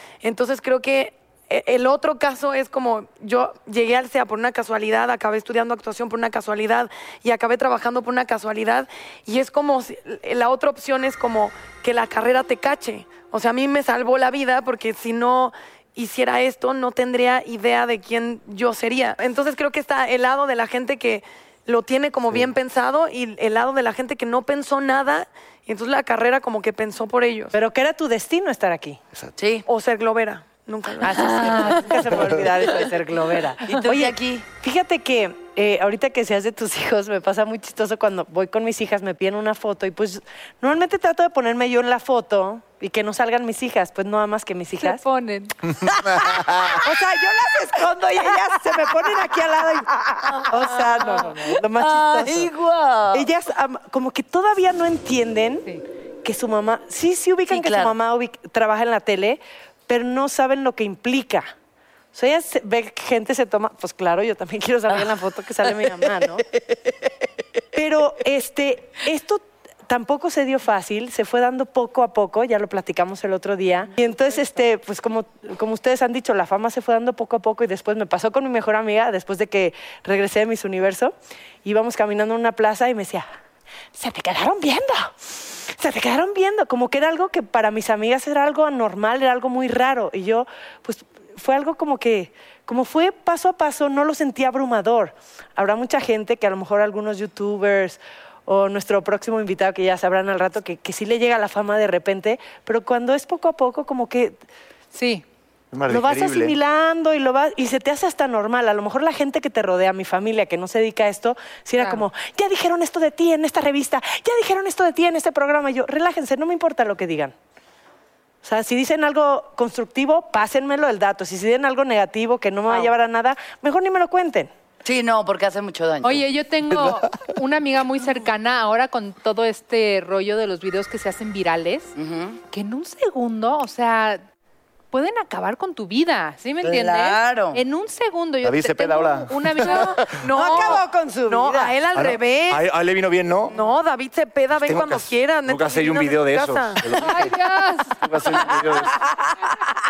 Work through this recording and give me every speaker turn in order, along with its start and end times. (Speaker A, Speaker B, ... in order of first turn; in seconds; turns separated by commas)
Speaker A: 0.2-27.5, Speaker B: 27.5-29.0, Speaker C: 29.4-29.6, Speaker A: 29.6-32.1, Speaker B: 31.0-45.0, Speaker C: 33.6-34.5, Speaker D: 44.8-45.5, Speaker E: 46.0-46.8, Speaker B: 46.8-52.5, Speaker C: 50.4-50.6, Speaker D: 51.0-51.3, Speaker C: 51.4-53.3, Speaker B: 53.1-55.7, Speaker B: 56.2-61.5, Speaker C: 57.5-58.0, Speaker B: 62.1-66.4, Speaker B: 67.7-83.3, Speaker B: 83.9-104.4, Speaker D: 104.9-105.2, Speaker E: 105.7-106.6, Speaker B: 105.9-117.3, Speaker D: 111.8-112.1, Speaker B: 118.4-124.5, Speaker C: 124.8-126.2, Speaker D: 126.0-131.9, Speaker C: 131.9-132.4, Speaker D: 132.5-134.2, Speaker D: 134.9-140.0, Speaker C: 136.6-137.6, Speaker E: 138.4-140.2, Speaker A: 139.7-142.6, Speaker B: 140.3-141.8, Speaker E: 141.9-143.5, Speaker A: 143.5-146.9, Speaker E: 144.6-147.3, Speaker D: 147.0-148.0, Speaker E: 148.0-149.0, Speaker C: 148.6-149.2